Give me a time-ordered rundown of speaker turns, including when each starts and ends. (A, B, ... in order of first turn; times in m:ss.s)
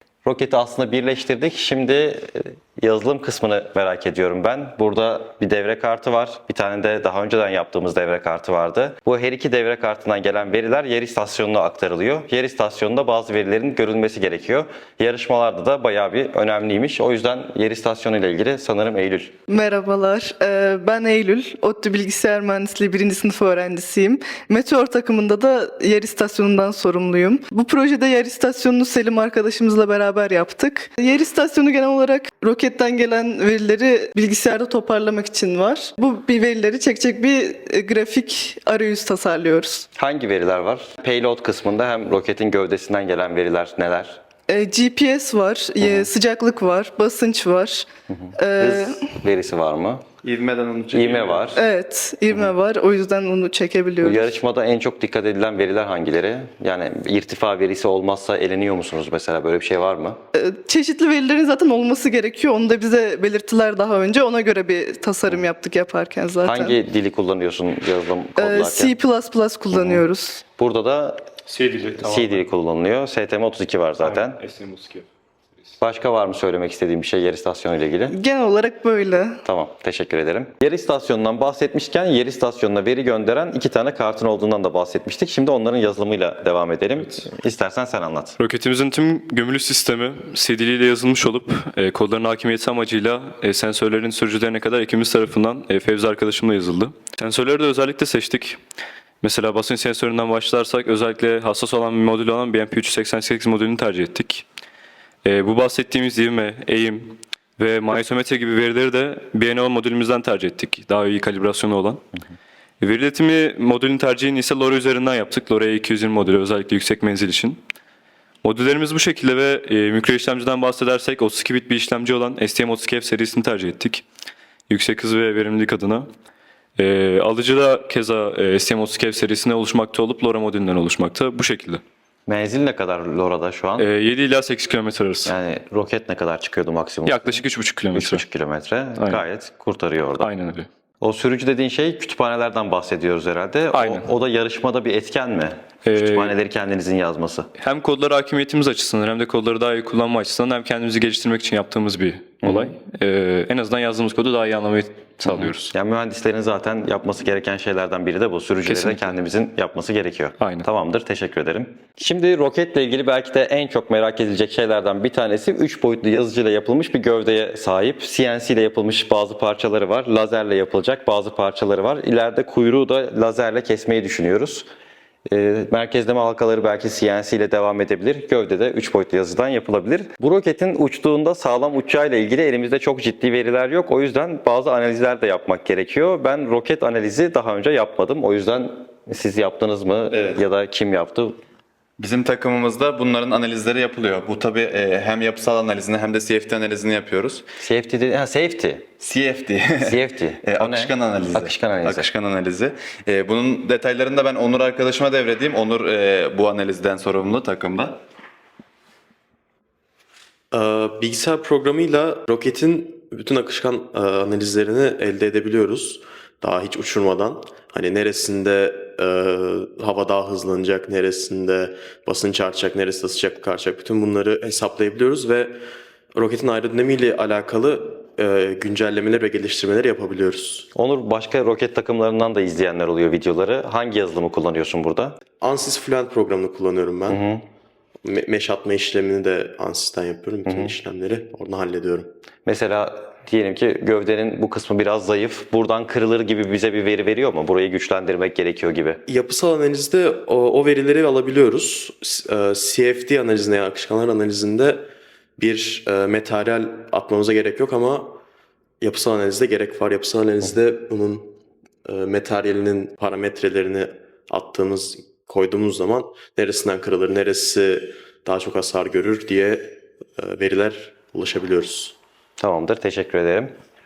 0:00.2-0:19.4 A
0:19.5-0:39.9 B
0:40.0-0:44.2 A
0:44.5-0:47.9 B
0:45.8-0:46.1 A
0:48.2-0:50.0 A
0:48.4-0:49.0 B
0:50.2-0:51.5 C
0:50.9-0:51.6 A
0:51.5-0:54.4 B
0:54.0-1:00.2 A
1:00.4-1:06.8 B
1:06.4-1:09.0 A
1:08.4-1:10.4 B
1:09.7-1:11.2 A
1:11.5-1:12.4 D
1:12.0-1:14.4 A
1:14.0-1:15.0 D
1:15.8-1:18.2 A
1:18.1-1:19.4 B
1:19.4-1:28.4 A
1:28.4-1:38.6 D
1:39.2-1:44.4 D
1:45.2-1:52.0 D
1:52.8-1:57.6 D
1:58.4-2:04.0 D
2:04.7-2:06.1 D
2:06.8-2:11.8 D
2:12.3-2:13.9 A
2:13.8-2:15.3 D
2:15.2-2:17.4 A
2:17.1-2:18.2 D
2:17.9-2:20.3 A
2:19.0-2:19.2 D
2:20.2-2:20.7 D
2:21.0-2:27.5 A
2:23.7-2:24.1 D
2:25.9-2:26.3 D
2:27.6-2:35.7 D
2:32.4-2:32.8 A
2:35.3-2:54.7 A
2:38.6-2:39.1 D
2:40.4-2:40.7 D
2:55.3-3:11.4 A
3:10.1-3:10.4 C
3:12.0-3:17.5 C
3:17.6-3:18.9 A
3:19.0-3:28.0 C
3:19.8-3:22.1 A
3:30.5-3:45.6 E
3:46.1-3:50.7 E
3:50.8-3:55.2 A
3:55.4-3:57.2 E
3:57.1-3:57.4 A
3:58.0-4:02.1 E
4:00.5-4:00.7 A
4:02.5-4:09.0 A
4:09.1-4:18.2 E
4:18.8-4:32.0 E
4:32.4-4:33.5 A